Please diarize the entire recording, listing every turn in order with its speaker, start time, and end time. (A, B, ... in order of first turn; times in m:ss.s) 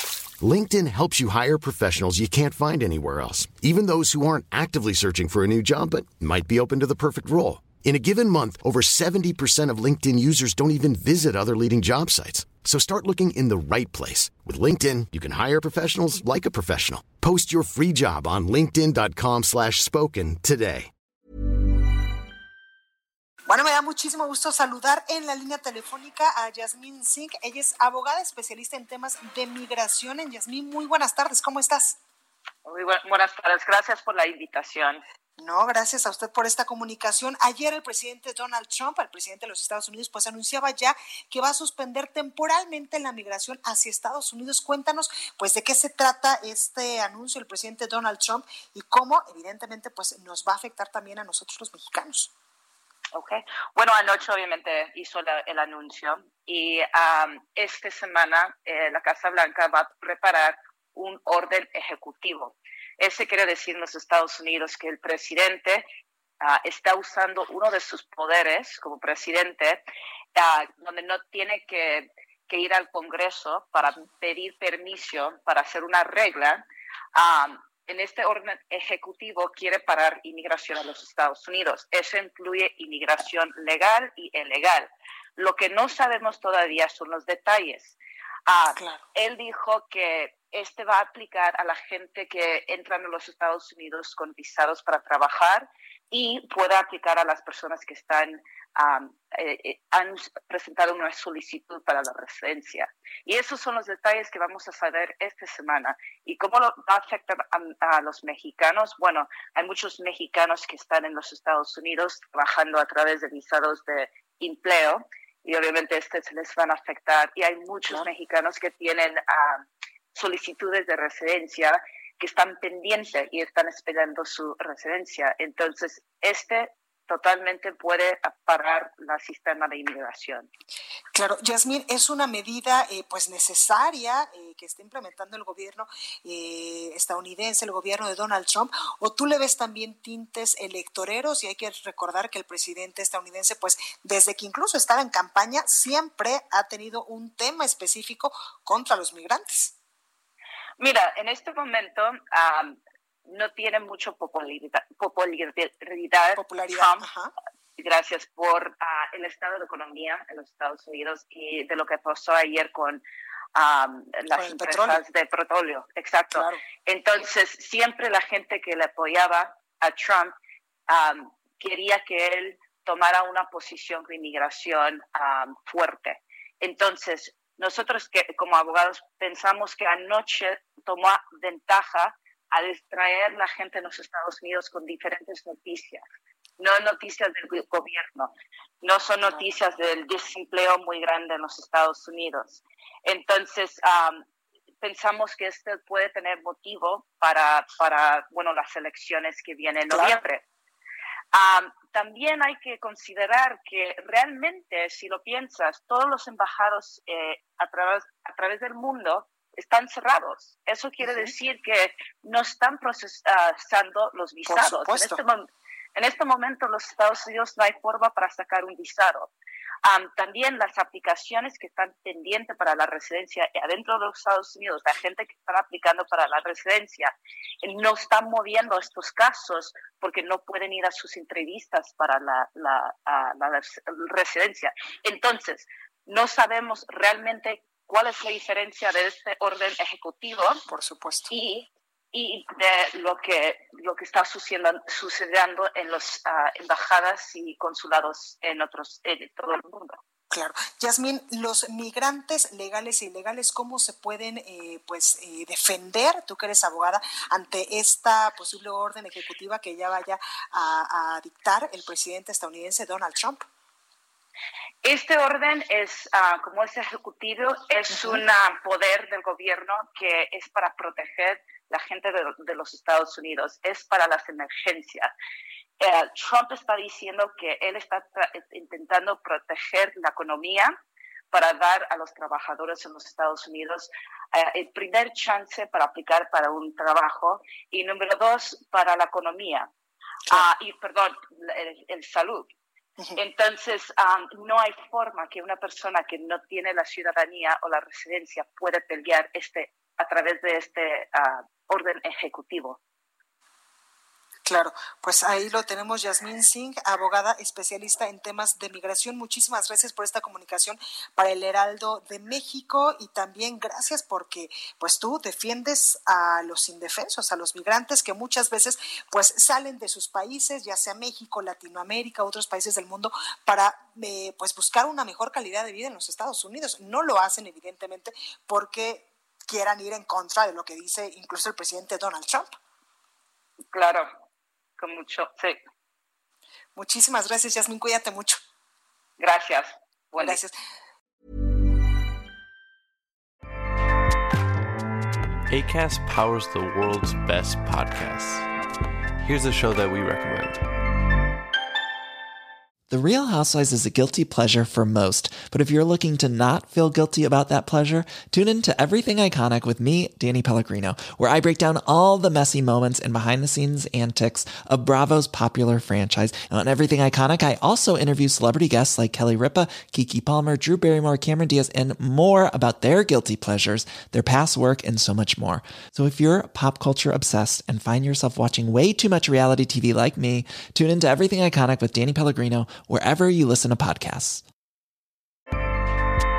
0:00.4-0:20.9 A
0:23.5-0:32.0 B
0:32.6-0:35.0 C
0:35.4-0:52.3 B
0:53.1-1:05.9 C
1:06.4-1:09.8 C
1:10.3-1:16.6 C
1:17.1-1:28.0 C
1:28.5-2:10.5 C
1:28.8-1:29.0 B
2:11.1-2:29.7 B
2:30.8-2:37.0 C
2:36.4-2:37.3 B
2:37.8-2:43.0 C
2:43.5-2:50.4 C
2:44.3-2:45.0 B
2:46.3-2:46.6 B
2:50.9-3:06.0 C
3:06.6-3:14.2 C
3:14.8-3:20.4 C
3:19.9-3:20.2 B
3:21.3-3:39.3 C
3:31.0-3:31.3 B
3:34.4-3:35.2 B
3:39.8-4:00.6 C
4:00.7-4:01.3 B
4:01.3-4:10.0 C
4:10.3-4:23.4 B
4:24.8-4:35.1 C
4:27.9-4:28.2 B
4:35.8-4:40.8 C
4:41.3-4:49.7 C
4:50.3-4:52.5 C
4:53.2-5:02.8 C
5:04.4-5:32.5 B
5:33.7-5:34.1 C
5:34.8-5:35.6 C
5:36.7-5:38.4 B
5:39.2-5:40.4 C
5:40.2-5:40.5 B
5:45.5-5:48.5 D
5:49.2-5:50.6 D
5:52.9-6:24.4 E